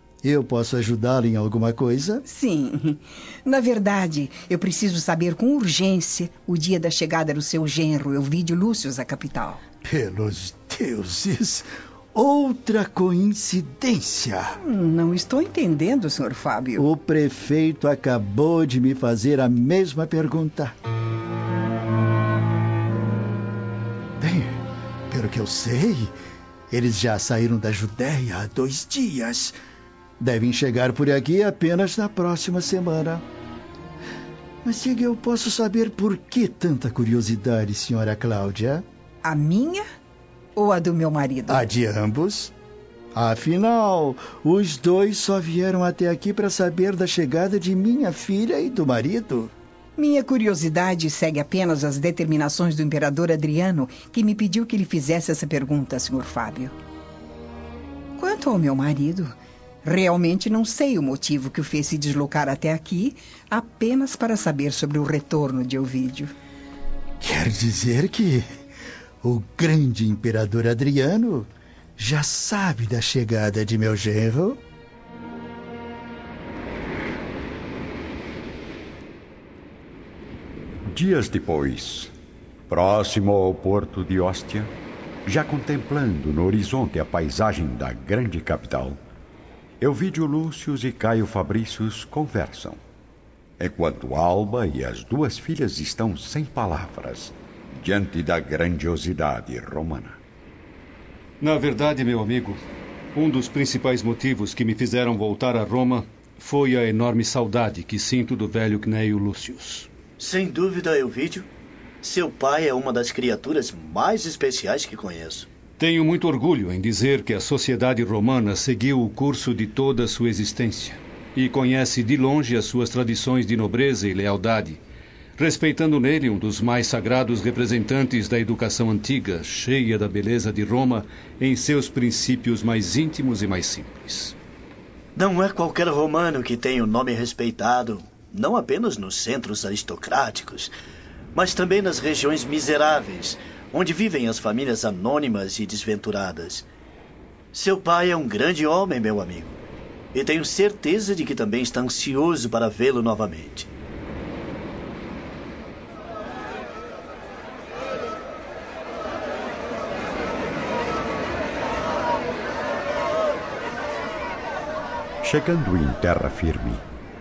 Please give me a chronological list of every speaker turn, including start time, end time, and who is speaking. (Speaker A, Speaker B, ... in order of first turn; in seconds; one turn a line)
Speaker A: 0.2-2.2
Speaker B: 2.2-9.6
Speaker A: 9.8-14.6
Speaker B: 14.6-16.9
Speaker A: 16.8-20.8
Speaker A: 24.2-26.1
Speaker A: 26.7-29.6
Speaker A: 30.2-33.2
Speaker A: 34.6-38.8
Speaker B: 39.2-39.9
Speaker B: 40.6-41.7
Speaker A: 41.5-42.5
Speaker A: 43.1-49.5
Speaker B: 50.0-56.8
Speaker B: 58.2-66.3
Speaker A: 67.2-68.5
Speaker A: 69.2-74.6
Speaker C: 80.9-82.1
Speaker C: 82.7-84.7
Speaker C: 85.3-89.0
Speaker C: 89.8-92.8
Speaker C: 93.6-100.2
Speaker D: 101.4-102.6
Speaker D: 103.2-109.9
Speaker E: 110.2-111.5
Speaker E: 112.0-115.5
Speaker D: 115.8-124.8
Speaker D: 125.4-134.3
Speaker E: 135.2-140.7
Speaker E: 141.3-146.7
Speaker E: 147.5-149.6
Speaker E: 150.1-153.7
Speaker C: 165.2-166.8